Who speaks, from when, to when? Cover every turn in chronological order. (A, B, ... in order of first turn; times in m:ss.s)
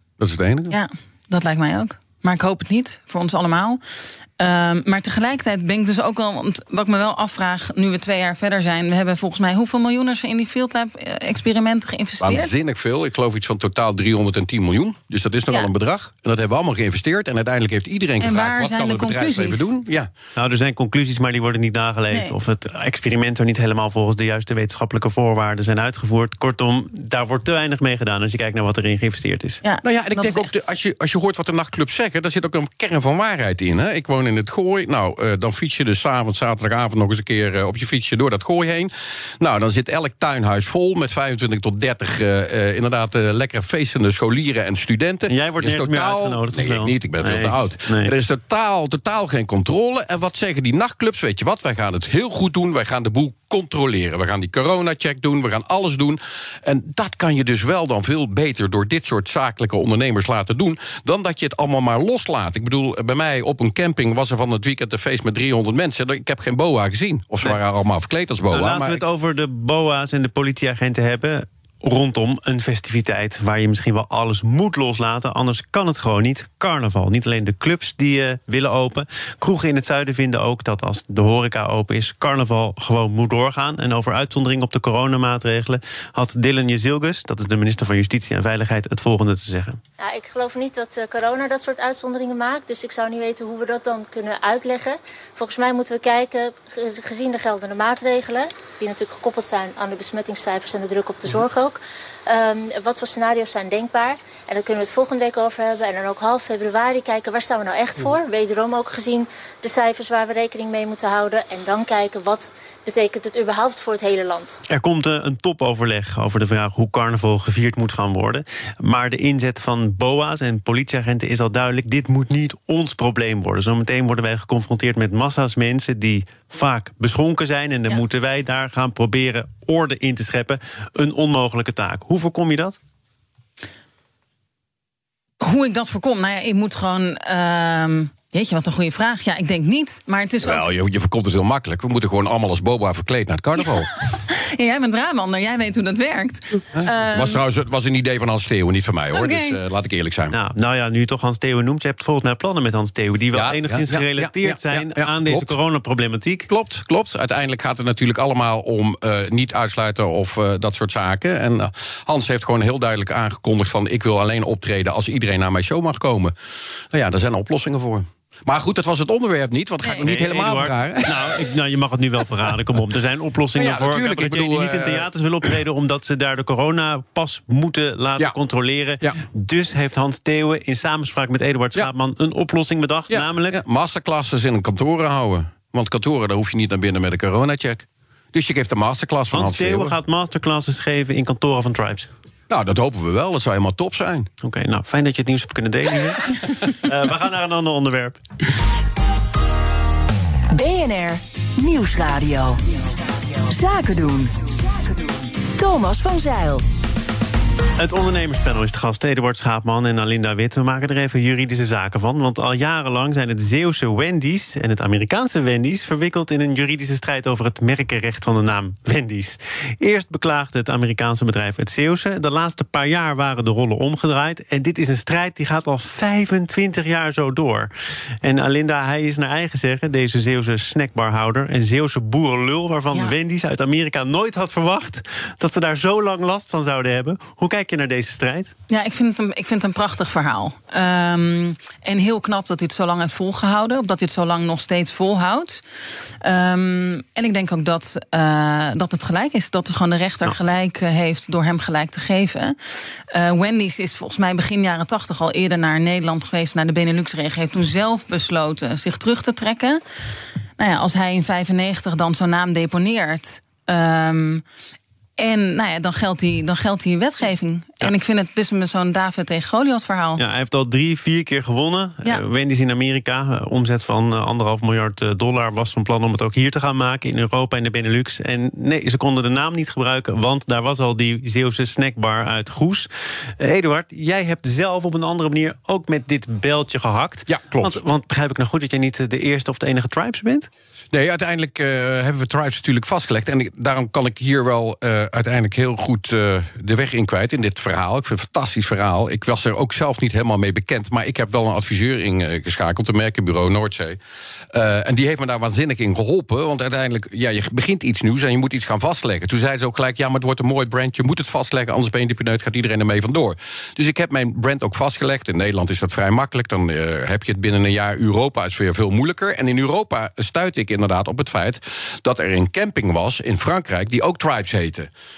0:00.2-0:00.8 A
0:00.7-0:12.5 B
0:12.2-0:20.1 A
0:18.2-0:19.7 B
0:20.4-0:29.6 C
0:29.6-0:30.7 B
0:29.8-1:09.0 A
0:45.3-0:48.1 C
1:08.5-1:29.8 C
1:30.0-1:54.6 D
1:54.7-2:12.8 C
2:15.4-2:20.6 B
2:20.4-2:23.9 A
2:24.0-2:27.4 B
2:26.7-2:30.4 A
2:29.1-2:29.6 B
2:30.3-2:36.5 C
2:33.3-2:35.6 A
2:36.5-2:46.3 A
2:46.9-2:51.6 A
2:49.8-2:50.1 B
2:50.0-3:03.6 C
2:53.6-2:55.5 A
3:03.1-3:10.0 A
3:09.3-3:12.1 C
3:12.5-3:14.3 A
3:14.4-3:18.2 C
3:20.5-3:22.6 E
3:23.5-3:26.6 E
3:27.8-3:47.7 C
3:48.2-3:58.5 C
3:58.7-4:12.6 B
4:13.1-4:19.8 B
4:20.6-4:24.4 B
4:25.2-4:30.2 B
4:30.2-4:50.5 C
4:47.3-4:47.8 A
4:50.9-5:04.0 A
5:04.5-5:24.9 A